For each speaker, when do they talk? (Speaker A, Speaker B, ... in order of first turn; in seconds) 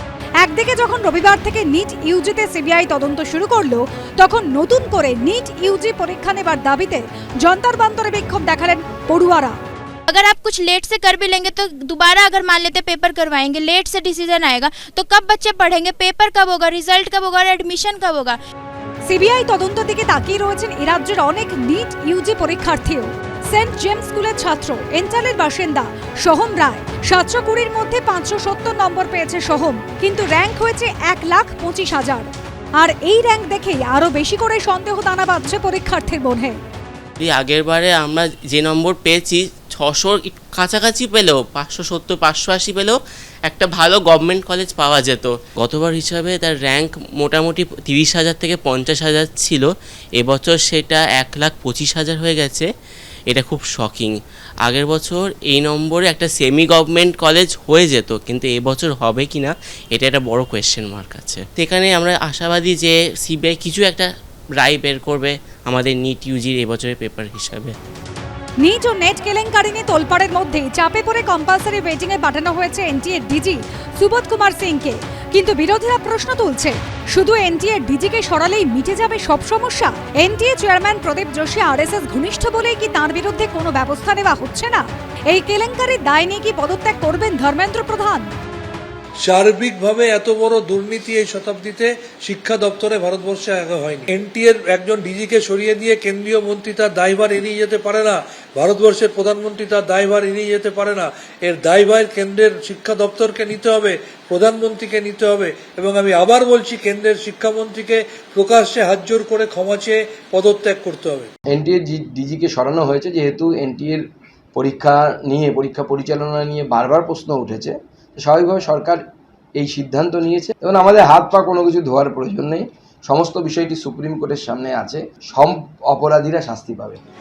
Speaker A: 0.4-9.6, 19.1-36.6, 68.6-88.3
Speaker B: 10.1-18.4
Speaker C: 37.2-52.7, 53.3-67.8
Speaker D: 89.2-111.3
Speaker E: 111.5-119.0, 119.6-127.0